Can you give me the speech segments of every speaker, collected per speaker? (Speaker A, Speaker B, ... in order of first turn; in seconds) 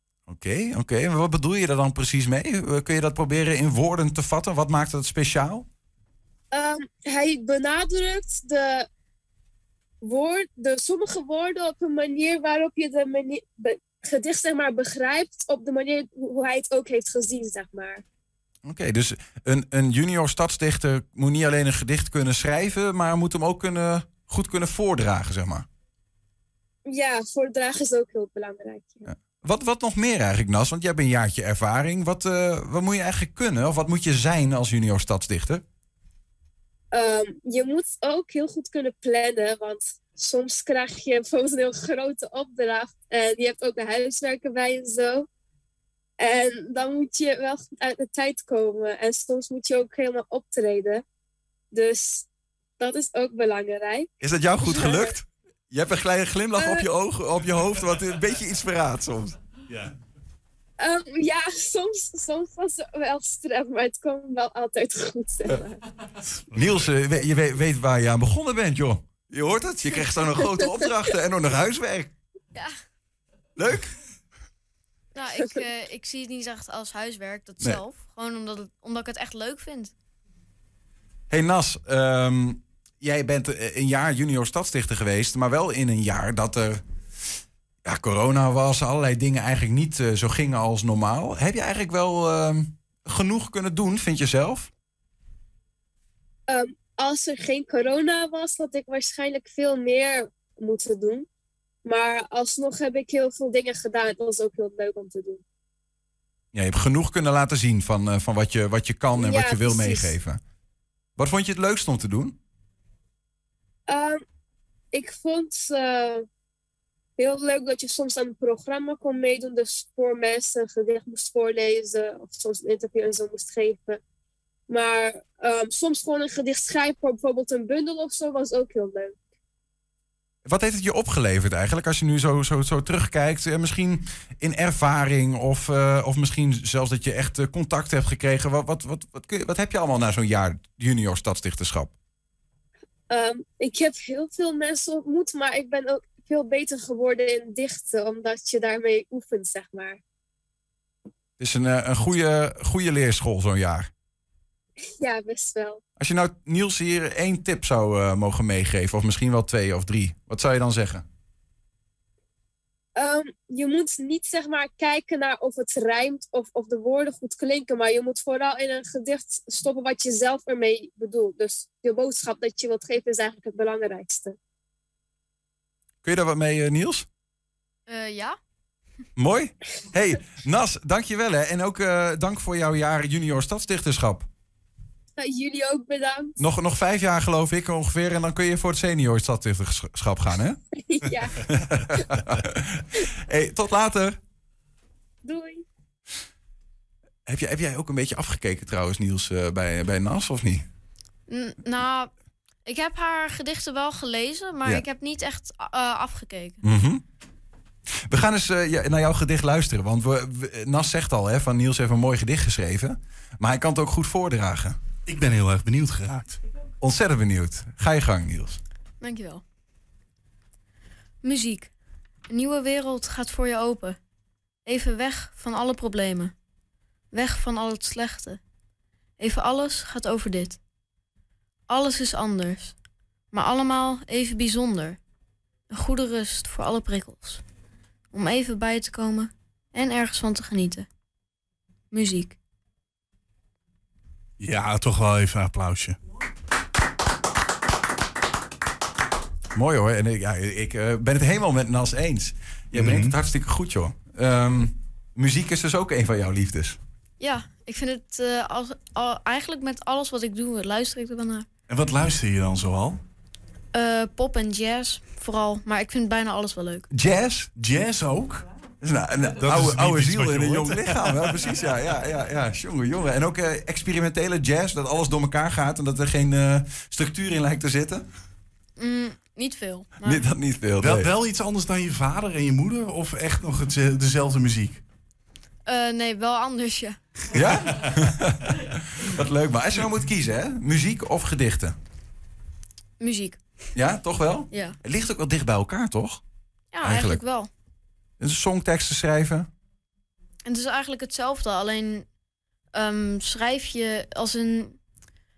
Speaker A: 0.3-5.7, 18.6-25.7, 29.1-35.6, 54.2-59.4, 66.5-72.1, 73.6-73.9, 81.3-86.8, 87.8-94.7, 106.5-110.4, 111.2-112.4, 130.4-141.9, 151.4-153.9, 156.0-161.1, 176.0-177.1, 179.2-184.3, 186.4-190.6, 191.4-194.2, 197.3-200.7, 206.6-207.0, 208.1-214.8, 216.8-218.6, 249.5-256.8, 266.9-267.5, 268.8-278.0, 280.0-281.1, 287.3-291.8, 293.8-296.2, 296.8-297.2, 298.2-299.5
Speaker B: 6.5-8.9, 10.0-18.0, 26.9-29.1, 36.9-45.3, 46.2-51.0, 51.7-52.3, 52.8-54.1, 54.6-55.1, 56.6-56.9, 60.8-65.8, 96.5-101.3, 101.8-105.4, 109.2-110.1, 113.9-114.2, 114.9-116.3, 117.2-124.0, 124.7-129.2, 143.1-150.0, 155.0-155.8, 163.0-174.4, 185.2-186.4, 190.8-191.4, 195.2-195.6
Speaker C: 75.2-79.9, 177.9-178.4, 201.3-202.1, 202.7-206.6, 219.0-219.4, 221.2-221.7, 222.3-224.0, 224.7-226.3, 227.1-228.4, 229.2-230.6, 231.7-232.8, 233.3-235.0, 235.7-237.4, 238.1-240.9, 241.9-242.4, 257.2-261.5, 263.7-266.9, 278.8-280.2, 285.7-287.0, 293.0-293.4, 296.7-297.5, 300.5-302.1, 302.7-304.8
Speaker D: 215.1-216.4, 244.4-246.0, 261.8-263.0, 267.6-268.4, 269.5-270.7, 280.8-284.8